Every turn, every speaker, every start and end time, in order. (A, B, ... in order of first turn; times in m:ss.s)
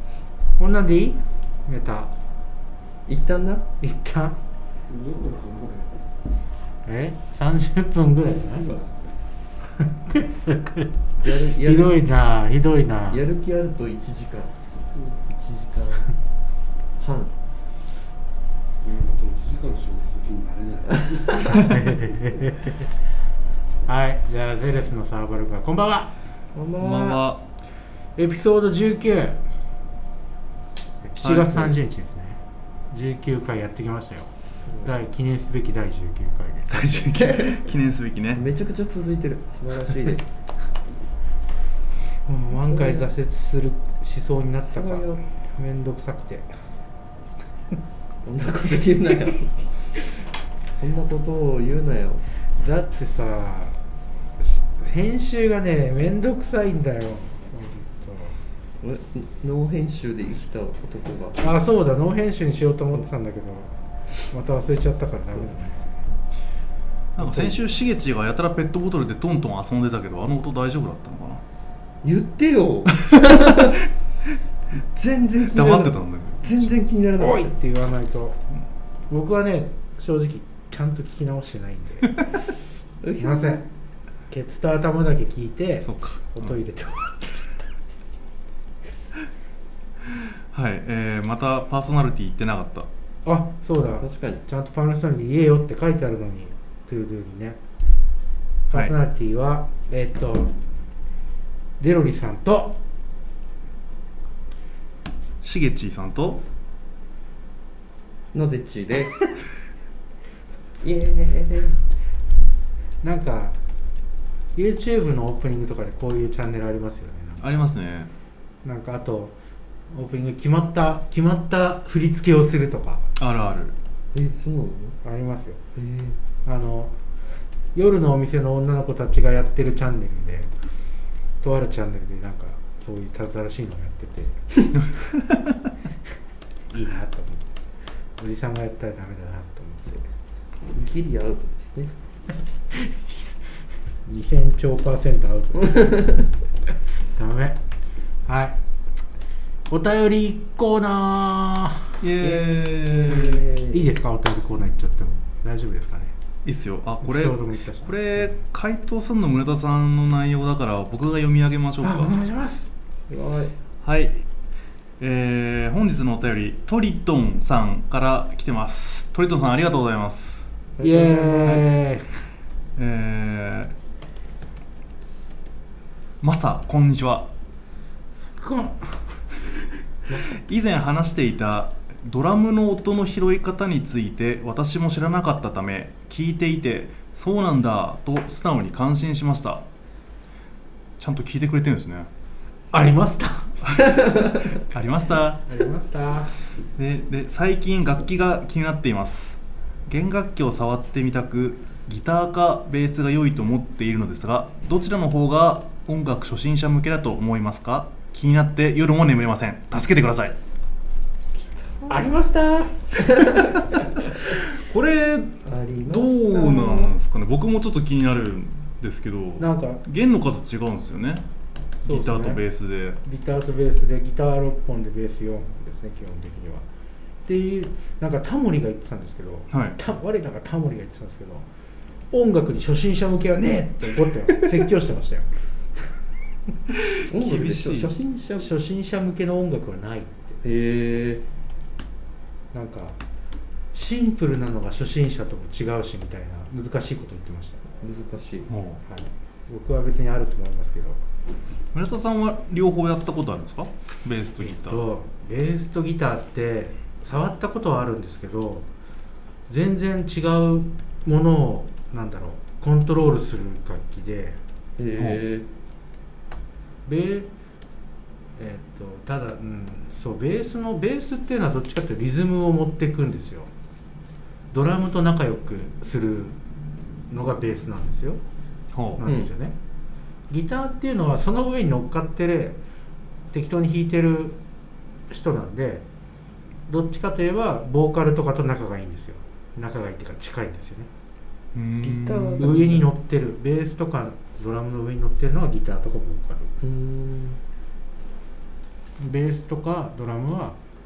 0:00.6-0:02.1 A
0:03.1-0:03.7 B
0:03.8-0:04.4 A
0:04.9-0:06.0 C
0:06.8-0:08.8 A
0:08.5-0:08.8 B
0:09.8-0:13.2 A
0:11.2-0:12.0 B
0:13.1-0:14.6 B
0:15.0-0:15.2 C
0:15.3-0:16.2 B
0:17.0-0:17.3 B
0:18.8-0:21.8 C
0:20.9-0:21.5 B
0:21.7-0:22.9 A
0:23.9-0:26.1 A
0:26.6-0:27.3 B
0:26.8-0:27.4 D
0:28.2-0:29.4 A
0:31.0-0:34.3 A
0:31.2-0:31.8 D
0:34.6-0:34.9 B
0:34.8-0:37.1 A
0:36.7-0:38.5 D
0:37.1-0:37.6 B
0:38.4-0:40.3 B
0:42.3-0:46.5 A
0:42.5-0:43.1 B
0:44.7-0:45.2 B
0:48.2-0:49.7 B
0:50.8-0:52.2 B
0:52.6-0:53.8 A
0:54.4-0:58.4 A
0:58.8-1:01.4 B
1:01.4-1:03.7 A
1:04.3-1:06.0 A
1:07.2-1:11.4 D
1:07.2-1:07.6 A
1:12.0-1:13.8 B
1:13.0-1:13.7 D
1:14.9-1:17.5 B
1:15.5-1:16.7 D
1:17.2-1:18.5 A
1:19.1-1:22.2 A
1:23.0-1:23.6 B
1:23.2-1:23.6 A
1:24.3-1:27.6 A
1:25.8-1:26.5 D
1:30.0-1:32.9 D
1:33.2-1:37.6 A
1:34.0-1:34.4 B
1:38.7-1:40.5 A
1:41.8-1:42.8 A
1:45.4-1:46.4 D
1:48.3-1:49.3 B
1:50.8-1:51.8 B
1:53.0-1:53.6 A
1:54.6-1:57.5 A
1:57.4-1:58.1 D
1:58.6-1:59.4 A
1:59.9-2:03.1 A
2:03.2-2:03.8 D
2:04.1-2:05.0 B
2:05.0-2:05.6 A
2:05.8-2:06.2 B
2:06.5-2:07.0 A
2:07.8-2:10.5 A
2:11.4-2:14.4 A
2:14.8-2:15.6 D
2:16.7-2:17.4 A
2:18.2-2:20.0 A
2:20.7-2:21.9 B
2:22.7-2:23.3 A
2:24.1-2:26.0 A
2:27.2-2:27.6 A
2:28.3-2:28.6 A
2:29.7-2:32.0 A
2:32.0-2:33.5 D
2:32.2-2:33.9 B
2:33.6-2:36.1 A
2:36.4-2:42.2 D
2:37.0-2:38.4 A
2:41.8-2:42.7 A
2:43.1-2:43.5 B
2:43.8-2:44.2 D
2:45.0-2:50.4 D
2:50.8-2:51.7 B
2:50.8-2:52.1 A
2:52.8-2:53.7 D
2:56.2-2:57.3 D
2:58.4-2:59.2 A
3:00.2-3:09.6 D
3:11.0-3:12.1 D
3:12.7-3:14.2 A
3:13.7-3:15.4 D
3:15.4-3:16.4 A
3:16.8-3:30.4 D
3:31.4-3:32.1 B
3:31.9-3:33.2 A
3:33.1-3:33.6 B
3:34.3-3:41.2 D
3:35.4-3:36.9 B
3:39.4-3:39.8 A
3:41.8-3:42.4 A
3:41.8-3:43.0 D
3:43.0-3:46.6 A
3:47.2-3:51.5 A
3:49.5-3:49.8 D
3:52.1-3:55.3 A
3:56.7-3:57.9 D
3:57.1-3:58.5 B
3:58.4-4:00.4 A
4:00.4-4:01.2 B
4:02.5-4:03.0 A
4:03.7-4:07.6 A
4:07.8-4:08.5 B
4:08.5-4:08.8 D
4:08.8-4:11.0 A
4:11.7-4:14.9 D
4:14.4-4:18.7 A
4:19.5-4:24.4 A
4:24.8-4:25.5 B
4:25.0-4:25.3 D
4:26.9-4:27.3 A
4:28.4-4:33.5 A
4:34.5-4:36.4 A
4:37.1-4:38.2 A
4:38.7-4:39.0 D
4:39.0-4:39.6 A
4:39.0-4:39.3 B
4:40.3-4:42.6 A
4:43.3-4:44.4 A
4:45.1-4:45.8 A
4:46.7-4:50.9 A
4:51.5-4:52.5 D
4:51.8-4:52.9 B
4:52.4-4:56.5 A
4:56.6-4:57.4 B
4:59.0-5:00.6 A